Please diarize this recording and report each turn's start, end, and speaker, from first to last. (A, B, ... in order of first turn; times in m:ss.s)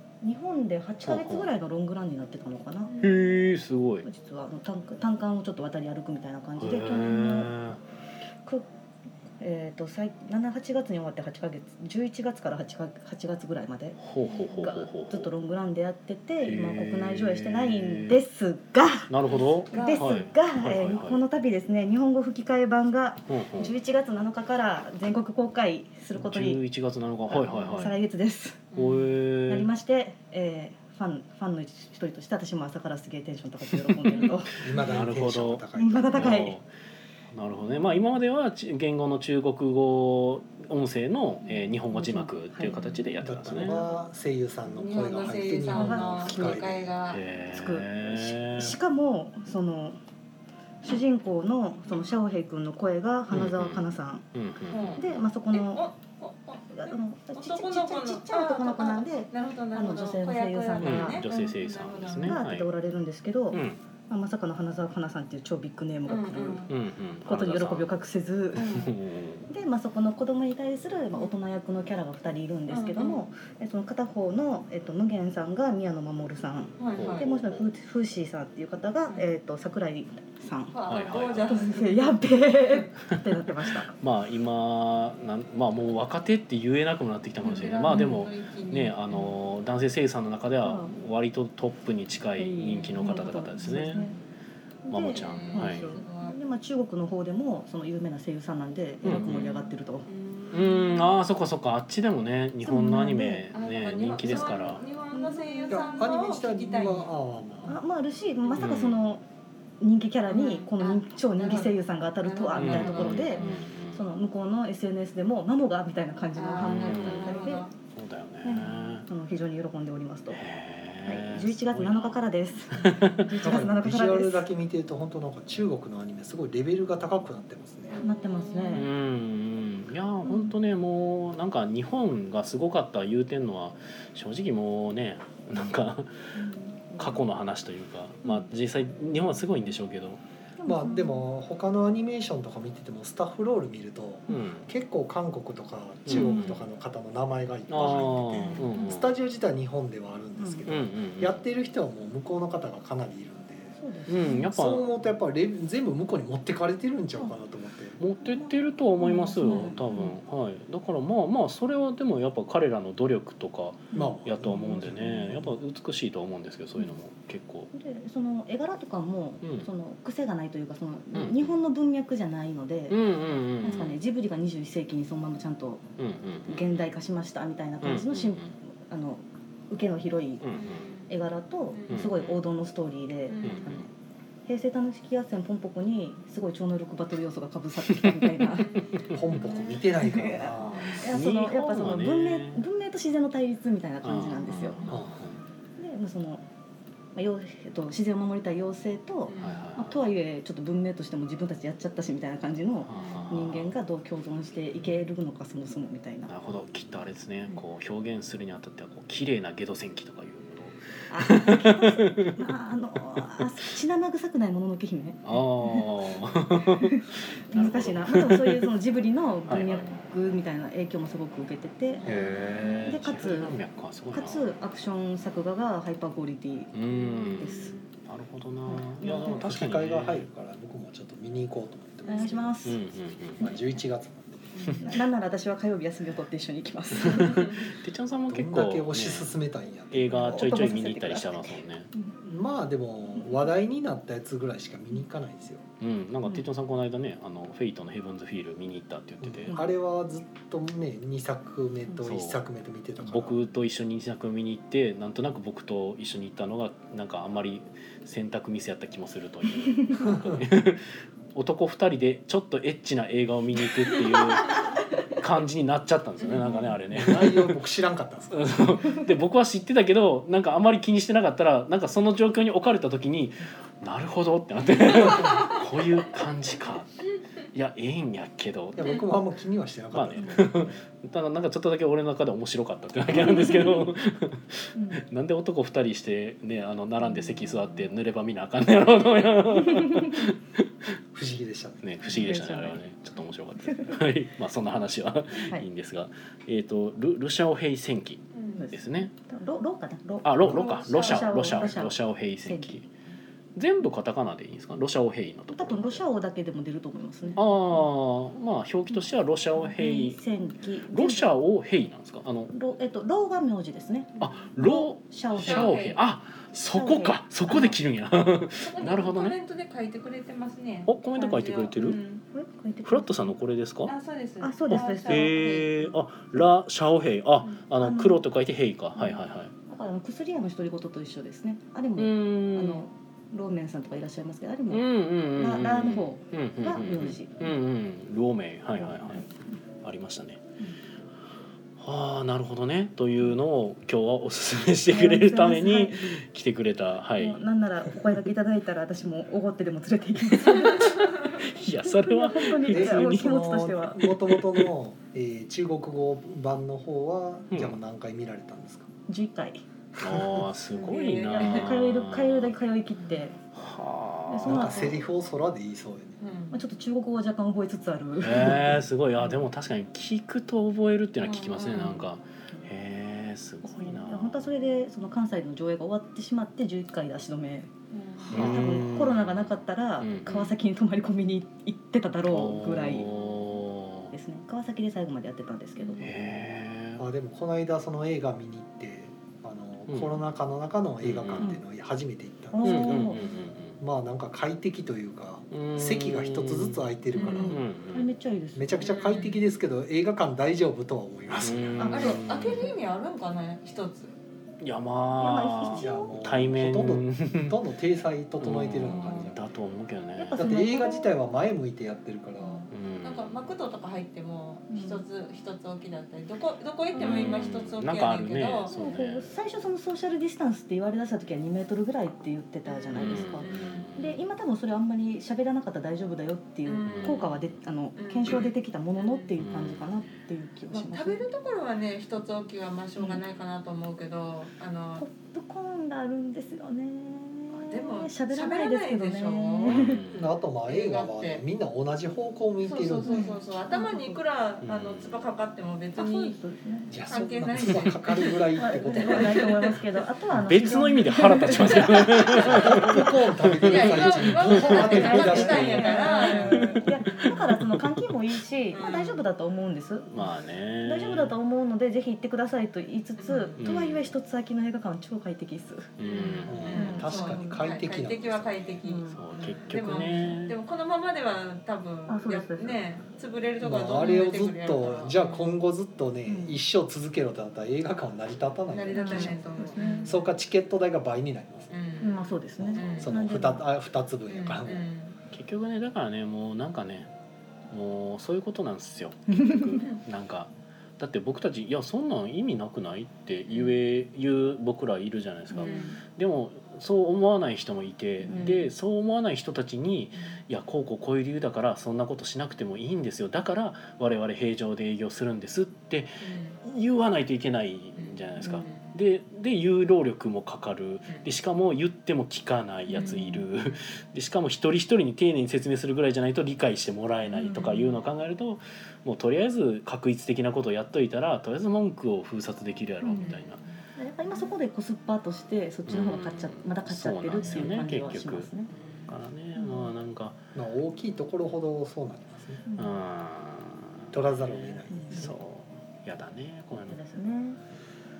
0:00.2-0:03.0 A
0:01.0-0:01.5 B
0:03.0-0:04.1 B
0:04.0-0:07.6 A
0:06.6-0:07.8 B
0:09.4-0:19.1 A
0:14.0-0:15.3 B
0:16.4-0:18.2 B
0:19.1-0:21.2 B
0:19.7-0:20.1 C
0:19.7-0:26.6 A
0:23.3-0:23.7 B
0:26.1-0:28.0 B
0:27.3-0:28.7 A
0:28.7-0:29.1 C
0:28.7-0:29.7 B
0:29.5-0:34.7 A
0:34.1-0:36.7 B
0:34.6-0:36.4 D
0:35.7-0:36.6 A
0:37.3-0:43.8 B
0:41.9-0:43.0 A
0:43.2-0:46.9 D
0:44.7-0:47.2 C
0:45.7-0:46.7 A
0:47.1-0:48.8 B
0:47.5-0:50.0 A
0:50.8-0:54.3 A
0:53.3-0:55.1 B
0:54.7-1:02.4 C
0:54.9-0:55.9 A
0:56.7-1:01.2 A
1:00.8-1:02.7 B
1:02.2-1:06.7 A
1:03.5-1:03.8 B
1:06.0-1:06.7 C
1:06.7-1:07.9 B
1:07.2-1:08.8 A
1:08.6-1:08.9 C
1:08.6-1:09.5 B
1:09.5-1:20.8 A
1:12.7-1:13.2 C
1:16.8-1:17.2 C
1:16.9-1:17.7 B
1:20.7-1:22.8 C
1:20.9-1:21.7 B
1:21.5-1:23.9 A
1:23.9-1:34.0 B
1:27.4-1:29.3 C
1:27.9-1:28.2 A
1:30.6-1:30.9 A
1:32.4-1:34.2 A
1:33.9-1:34.2 C
1:34.8-1:40.1 A
1:34.9-1:35.9 B
1:35.0-1:36.4 C
1:39.0-1:39.5 B
1:39.1-1:41.2 C
1:40.5-1:44.8 B
1:42.6-1:43.4 A
1:43.5-1:47.1 C
1:45.1-1:45.8 A
1:45.7-1:47.8 D
1:47.6-1:49.2 A
1:48.6-1:49.0 B
1:49.8-1:57.7 A
1:50.3-1:53.6 C
1:52.6-1:54.0 B
1:56.3-1:57.7 C
1:56.6-1:59.0 B
1:58.4-2:00.4 A
2:00.3-2:03.6 B
2:01.0-2:04.5 A
2:03.4-2:08.0 D
2:07.9-2:08.9 C
2:08.0-2:08.9 A
2:08.7-2:16.3 B
2:10.2-2:10.5 A
2:16.3-2:17.2 A
2:17.0-2:20.2 B
2:20.6-2:21.2 A
2:20.6-2:38.0 D
2:24.3-2:24.7 B
2:26.0-2:26.7 B
2:26.1-2:26.5 A
2:27.7-2:29.1 B
2:28.5-2:28.8 A
2:30.4-2:30.6 A
2:30.7-2:31.4 B
2:33.8-2:34.5 A
2:34.1-2:34.9 B
2:38.0-2:47.7 B
2:38.2-2:40.2 A
2:43.9-2:45.3 A
2:43.9-2:45.5 D
2:47.7-2:53.0 A
2:49.4-2:49.7 B
2:51.1-2:51.5 B
2:52.9-2:54.0 B
2:53.6-2:55.9 A
2:56.0-2:56.7 B
2:56.4-3:03.9 A
2:57.8-2:58.5 B
3:00.4-3:00.8 B
3:00.6-3:01.1 C
3:01.7-3:02.1 C
3:01.9-3:02.4 B
3:03.3-3:03.8 C
3:03.4-3:03.9 B
3:04.4-3:08.7 A
3:08.6-3:09.9 C
3:09.1-3:11.0 D
3:10.0-3:14.8 A
3:10.6-3:12.6 B
3:14.0-3:15.4 B
3:15.8-3:16.4 A
3:17.1-3:26.3 A
3:19.3-3:19.6 C
3:19.4-3:20.0 B
3:22.8-3:23.7 B
3:22.9-3:23.2 C
3:26.3-3:32.4 B
3:31.1-3:35.9 A
3:35.2-3:38.7 B
3:36.6-3:42.1 A
3:39.5-3:40.0 B
3:41.9-3:42.8 C
3:42.0-3:44.5 B
3:42.8-3:43.6 A
3:44.1-3:47.7 A
3:46.7-3:50.3 B
3:47.4-3:47.8 C
3:48.7-3:49.4 A
3:49.0-3:52.8 D
3:52.0-3:52.8 A
3:52.1-3:52.3 C
3:52.6-3:53.5 B
3:53.4-3:54.7 D
3:53.4-3:53.7 A
3:54.6-3:54.8 C
3:54.8-3:57.5 A
3:57.0-3:59.3 B
3:57.2-3:57.6 C
3:58.3-4:00.5 D
3:59.9-4:01.9 B
4:00.1-4:02.1 A
4:02.2-4:05.6 D
4:05.8-4:09.6 B
4:09.2-4:13.4 D
4:12.0-4:12.4 B
4:13.0-4:24.6 B
4:20.0-4:20.4 D
4:25.1-4:27.6 B
4:26.9-4:28.8 D
4:28.3-4:37.0 B
4:34.9-4:35.6 D
4:37.5-4:39.0 B
4:38.7-4:40.8 D
4:39.9-4:50.9 B
4:44.7-4:45.0 A
4:47.1-4:47.6 A
4:49.7-4:50.2 A
4:51.1-4:52.0 D
4:51.8-4:59.1 B
4:52.0-4:52.8 A
4:53.7-4:54.0 A
4:55.3-4:55.7 A
4:58.3-4:58.6 C
4:58.6-5:02.9 A
5:00.2-5:02.9 B
5:00.8-5:01.4 C
5:03.6-5:06.0 B
5:05.5-5:07.4 A
5:07.4-5:10.2 B
5:09.6-5:11.4 A
5:10.9-5:12.5 B
5:12.5-5:15.8 A
5:14.2-5:14.4 C
5:14.2-5:19.4 B
5:15.4-5:16.0 C
5:16.6-5:17.8 A
5:18.6-5:22.2 C
5:20.9-5:22.0 B
5:22.3-5:23.3 A
5:22.8-5:23.9 B
5:23.8-5:25.8 C
5:24.4-5:25.4 A
5:24.7-5:29.5 B
5:27.8-5:28.2 A
5:29.0-5:37.5 A
5:32.0-5:32.8 B
5:34.7-5:39.2 B
5:38.8-5:39.3 A
5:39.8-5:40.4 B
5:41.8-5:47.4 B
5:44.9-5:46.2 A
5:47.2-5:51.2 A
5:50.6-5:54.7 B
5:51.8-5:54.0 A
5:52.7-5:58.9 D
5:57.5-5:57.8 B
5:59.1-5:59.6 A
6:00.0-6:02.5 B
6:00.7-6:01.8 C
6:01.3-6:03.4 A
6:03.0-6:03.3 C
6:03.5-6:04.9 B
6:04.3-6:05.0 A
6:04.4-6:06.2 D
6:06.2-6:06.6 C
6:06.5-6:09.4 A
6:08.2-6:14.5 B
6:11.2-6:12.1 C
6:13.6-6:17.7 A
6:17.9-6:18.6 C
6:18.2-6:23.1 A
6:18.3-6:20.5 B
6:22.3-6:24.1 B
6:24.1-6:26.1 A
6:25.8-6:26.0 C
6:26.0-6:27.0 B
6:27.0-6:33.1 D
6:29.9-6:30.2 B
6:31.0-6:31.6 B
6:32.5-6:33.2 A
6:32.6-6:33.8 B
6:33.8-6:37.6 D
6:35.5-6:38.1 B
6:37.1-6:37.6 C
6:37.2-6:38.9 A
6:38.5-6:42.2 D
6:38.8-6:39.4 C
6:41.4-6:42.7 B
6:41.8-6:42.2 A
6:41.8-6:44.1 C
6:44.6-6:47.6 B
6:45.2-6:46.1 A
6:45.7-6:49.4 D
6:48.4-6:50.5 B
6:48.8-6:49.3 C
6:50.2-6:51.1 A
6:50.4-6:52.6 D
6:52.4-6:58.7 C
6:52.7-6:53.4 B
6:54.7-6:55.0 A
6:57.0-6:57.5 A
6:57.0-6:59.4 B
6:58.7-7:11.3 A
7:02.6-7:03.9 C
7:02.9-7:04.2 B
7:06.6-7:07.4 C
7:06.8-7:07.5 B
7:08.0-7:09.4 C
7:09.4-7:10.1 B
7:10.7-7:15.1 C
7:13.0-7:13.2 A
7:15.0-7:20.0 A
7:17.6-7:20.0 C
7:19.7-7:20.3 B
7:20.1-7:23.2 D
7:20.6-7:21.4 C
7:22.6-7:26.4 C
7:23.0-7:24.2 A
7:24.6-7:25.2 B
7:26.0-7:26.9 A
7:26.9-7:29.5 D
7:27.1-7:29.8 C
7:28.5-7:33.0 A
7:30.3-7:38.0 B
7:31.5-7:32.5 C
7:32.3-7:35.9 D
7:33.6-7:37.4 C
7:34.5-7:40.2 A
7:38.7-7:39.2 C
7:40.1-7:41.3 B
7:40.8-7:45.9 A
7:43.2-7:43.6 C
7:43.6-7:44.1 B
7:46.0-7:47.0 B
7:46.0-7:55.5 C
7:46.5-7:48.8 D
7:46.7-7:47.7 A
7:48.8-7:50.3 A
7:49.1-7:50.6 B
7:52.1-7:52.8 A
7:53.6-8:01.7 D
7:56.2-7:56.6 A
7:58.7-8:00.3 C
7:58.9-8:00.1 A
8:01.7-8:03.1 C
8:02.0-8:03.6 A
8:02.6-8:04.9 D
8:04.3-8:05.2 C
8:05.3-8:07.1 B
8:07.7-8:43.6 B
8:09.3-8:09.8 A
8:15.5-8:16.0 A
8:15.6-8:16.0 C
8:18.2-8:18.7 A
8:26.2-8:26.6 C
8:28.0-8:28.9 C
8:32.9-8:33.4 A
8:32.9-8:33.4 C
8:37.3-8:37.9 A
8:43.0-8:43.3 A
8:43.0-8:43.5 C
8:44.0-8:48.7 A
8:45.9-8:48.5 B
8:48.7-8:49.1 C
8:49.1-8:50.4 B
8:49.6-8:49.9 A
8:50.5-8:52.6 D
8:52.7-8:53.0 A
8:52.8-8:57.0 B
8:54.1-8:55.4 D
8:54.9-8:55.3 A
8:56.8-8:57.6 A